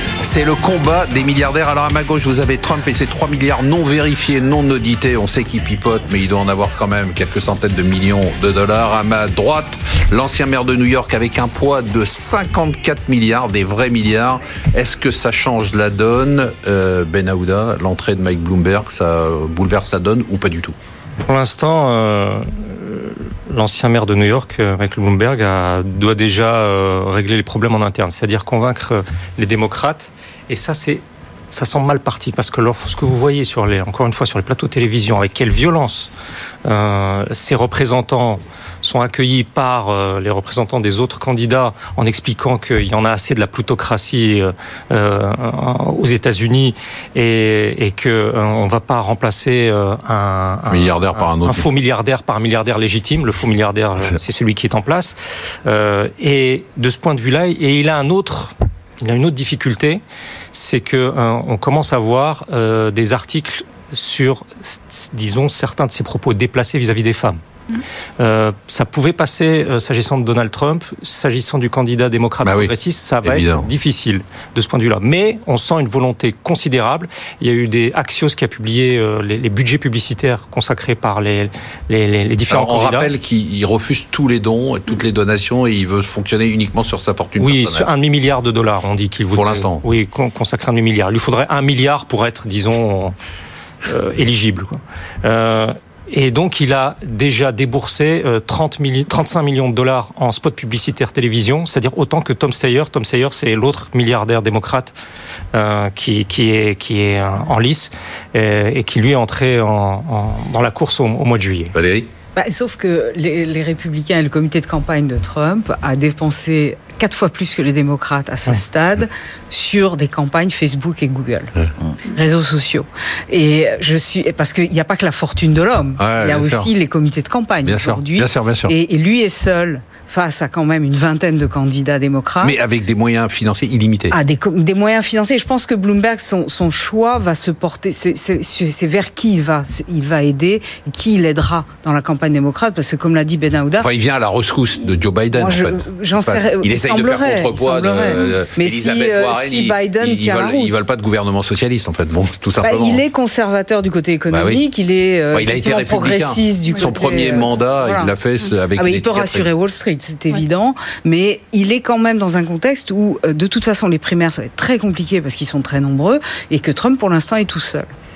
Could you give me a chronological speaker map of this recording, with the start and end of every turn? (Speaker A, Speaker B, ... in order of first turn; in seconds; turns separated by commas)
Speaker A: 0.2-20.8, Speaker B: 21.2-36.1, Speaker B: 36.6-60.0, Speaker A: 50.7-51.6, Speaker B: 60.5-67.4, Speaker B: 68.2-83.1, Speaker A: 72.4-72.7, Speaker A: 73.2-73.7, Speaker A: 82.5-87.9, Speaker B: 87.4-93.2, Speaker A: 89.3-89.8, Speaker B: 93.8-104.9, Speaker B: 105.5-111.7, Speaker A: 111.7-112.1, Speaker C: 112.3-121.5, Speaker C: 122.1-132.6, Speaker A: 126.0-126.7, Speaker A: 127.6-128.7, Speaker A: 132.4-134.1, Speaker C: 134.1-143.9, Speaker A: 143.8-153.0, Speaker C: 145.3-150.7, Speaker C: 152.6-158.1, Speaker A: 154.3-154.6, Speaker A: 155.3-159.5, Speaker C: 158.8-167.9